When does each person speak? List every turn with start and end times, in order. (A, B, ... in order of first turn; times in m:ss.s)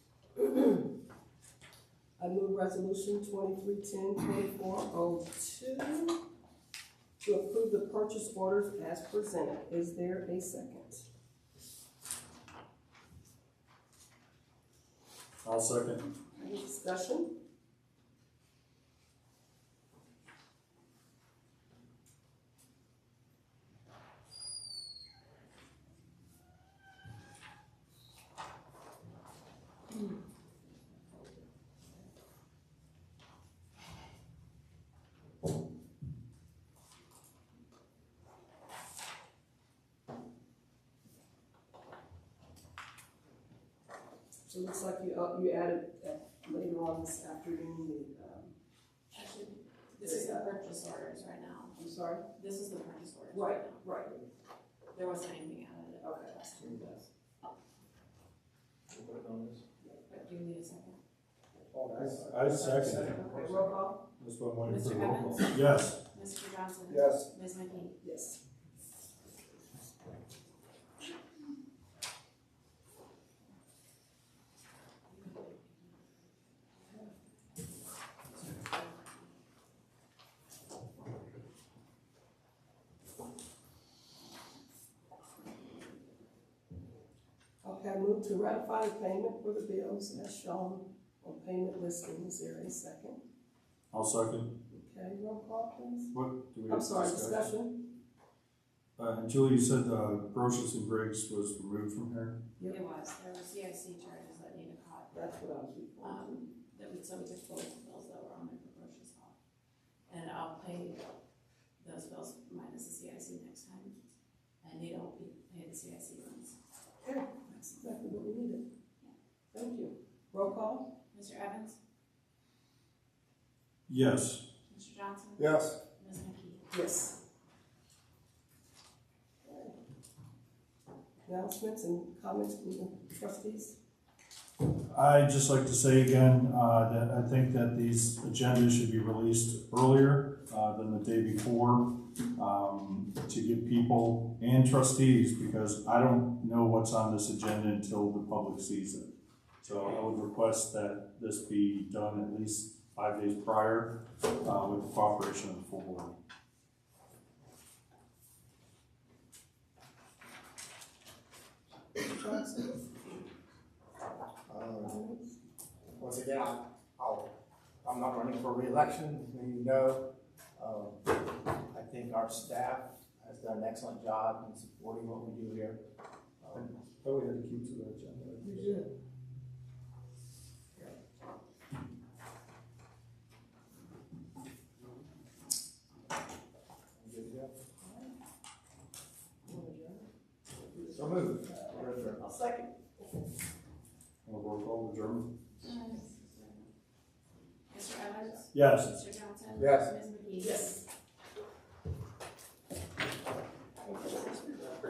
0:00.4-0:00.9 A
0:02.2-0:06.2 A
0:07.2-0:11.0 A
0:15.4-0:16.0 B
0:16.4-0:17.3 A
0:44.5-0:48.5 A
0:49.1-0:51.7 C
0:50.0-0:50.6 A
0:51.7-0:52.2 A
0:52.3-0:53.8 C
0:53.3-0:54.2 A
0:54.9-0:56.8 C
0:56.0-0:57.1 A
0:58.9-0:59.6 D
1:00.1-1:01.0 C
1:01.7-1:03.7 D
1:02.0-1:03.4 B
1:03.3-1:04.0 A
1:04.2-1:06.0 B
1:04.6-1:08.0 C
1:06.9-1:07.3 D
1:08.0-1:08.4 A
1:27.6-1:33.2 A
1:33.9-1:34.5 B
1:34.7-1:36.1 A
1:36.1-1:37.5 B
1:36.7-1:37.8 A
1:39.0-1:42.4 B
1:42.7-1:45.3 C
1:45.1-1:46.4 A
1:46.0-1:49.3 C
1:50.1-1:51.0 C
1:51.8-1:53.9 C
1:54.6-1:56.6 C
1:57.0-1:58.6 A
1:59.5-2:00.8 A
2:01.1-2:01.8 C
2:03.9-2:04.4 B
2:04.7-2:06.8 C
2:05.4-2:05.8 D
2:06.7-2:07.2 A
2:09.4-2:09.8 A
2:11.2-2:13.8 A
2:14.9-2:29.1 B
2:29.6-2:36.1 B
2:42.0-2:42.9 A
2:44.5-2:44.9 D
2:44.7-2:45.3 A
2:46.0-2:47.3 D
2:47.8-2:55.8 D
2:56.4-2:56.7 D
2:56.5-2:58.8 B
3:07.0-3:07.5 D
3:07.8-3:08.1 A
3:09.4-3:10.1 A
3:10.6-3:12.7 A
3:10.9-3:12.2 D
3:14.2-3:15.3 B
3:15.6-3:16.7 C
3:17.7-3:20.8 C
3:18.5-3:18.9 B
3:19.6-3:19.9 D
3:20.4-3:20.8 A
3:23.8-3:24.7 A